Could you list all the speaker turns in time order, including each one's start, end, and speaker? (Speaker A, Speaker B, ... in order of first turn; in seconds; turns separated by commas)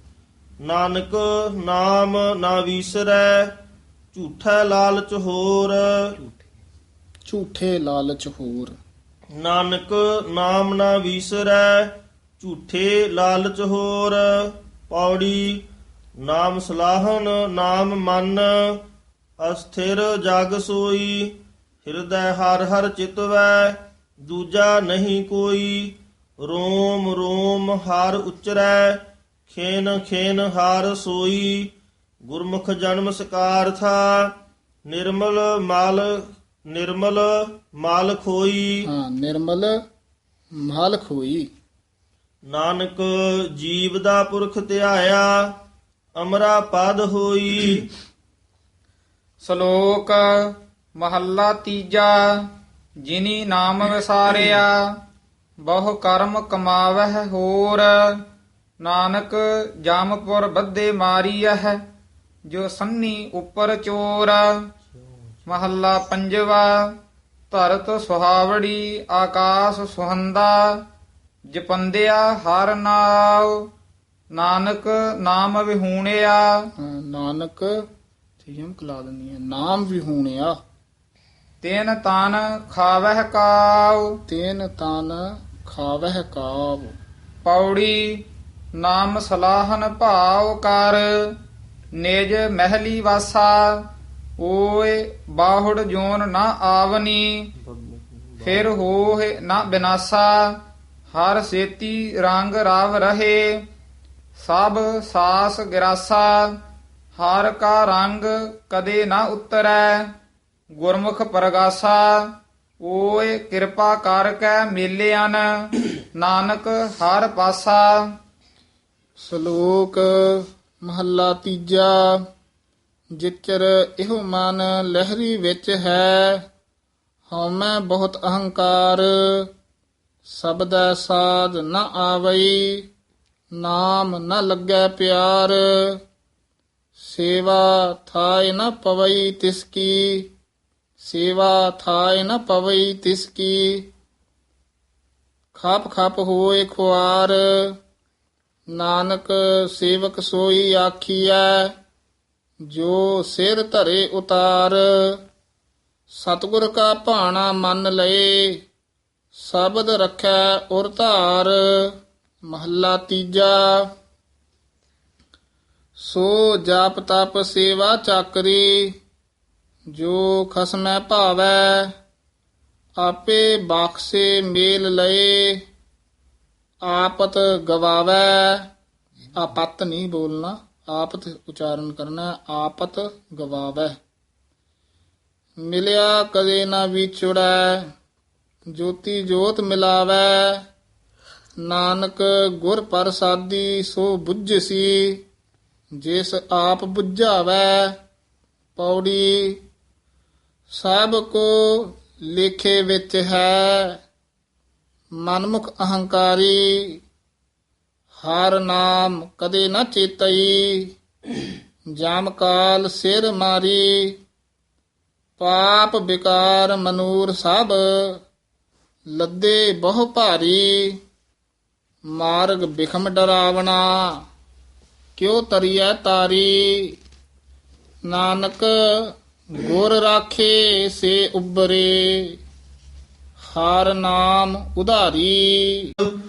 Speaker A: 0.6-3.5, Speaker A: 4.1-6.3, Speaker B: 7.3-8.8, Speaker A: 9.4-15.6, Speaker A: 16.2-18.8, Speaker A: 19.4-31.7, Speaker A: 32.3-34.3, Speaker A: 34.9-38.9, Speaker B: 38.9-39.8, Speaker B: 40.6-41.5, Speaker A: 42.5-45.5, Speaker A: 46.2-47.9, Speaker C: 49.4-52.4, Speaker C: 53.1-54.8, Speaker C: 55.6-58.2, Speaker C: 58.8-61.8, Speaker C: 62.5-64.5, Speaker C: 65.5-66.9, Speaker C: 67.5-70.8, Speaker C: 71.5-73.6, Speaker C: 74.3-76.7, Speaker B: 76.8-77.9, Speaker B: 78.4-80.6, Speaker C: 81.6-84.2, Speaker B: 84.3-87.0, Speaker C: 87.5-88.3, Speaker C: 88.8-91.3, Speaker C: 92.0-93.9, Speaker C: 94.4-97.5, Speaker A: 97.6-98.7, Speaker C: 98.4-100.6, Speaker C: 101.1-103.6, Speaker C: 104.4-106.6, Speaker C: 107.2-110.1, Speaker C: 110.8-118.0, Speaker B: 119.2-122.2, Speaker B: 123.2-126.4, Speaker B: 127.3-129.5, Speaker B: 130.3-132.9, Speaker B: 133.6-136.0, Speaker B: 137.0-140.3, Speaker B: 141.0-143.9, Speaker B: 145.5-147.8, Speaker B: 148.7-151.8, Speaker B: 152.7-155.2, Speaker B: 156.1-158.6, Speaker B: 159.3-163.9, Speaker B: 166.0-169.0, Speaker B: 169.9-171.9, Speaker B: 173.0-175.6, Speaker B: 176.8-178.7, Speaker B: 179.4-184.0, Speaker B: 185.6-187.9, Speaker B: 188.7-190.7, Speaker B: 191.7-195.2, Speaker B: 196.0-198.0, Speaker B: 198.8-199.6, Speaker B: 200.7-204.0, Speaker B: 205.2-207.0, Speaker B: 208.2-210.9, Speaker B: 212.0-214.2, Speaker B: 215.4-218.2, Speaker B: 219.1-221.0, Speaker B: 222.2-224.2, Speaker B: 225.2-227.0, Speaker B: 228.1-232.4, Speaker B: 233.5-235.9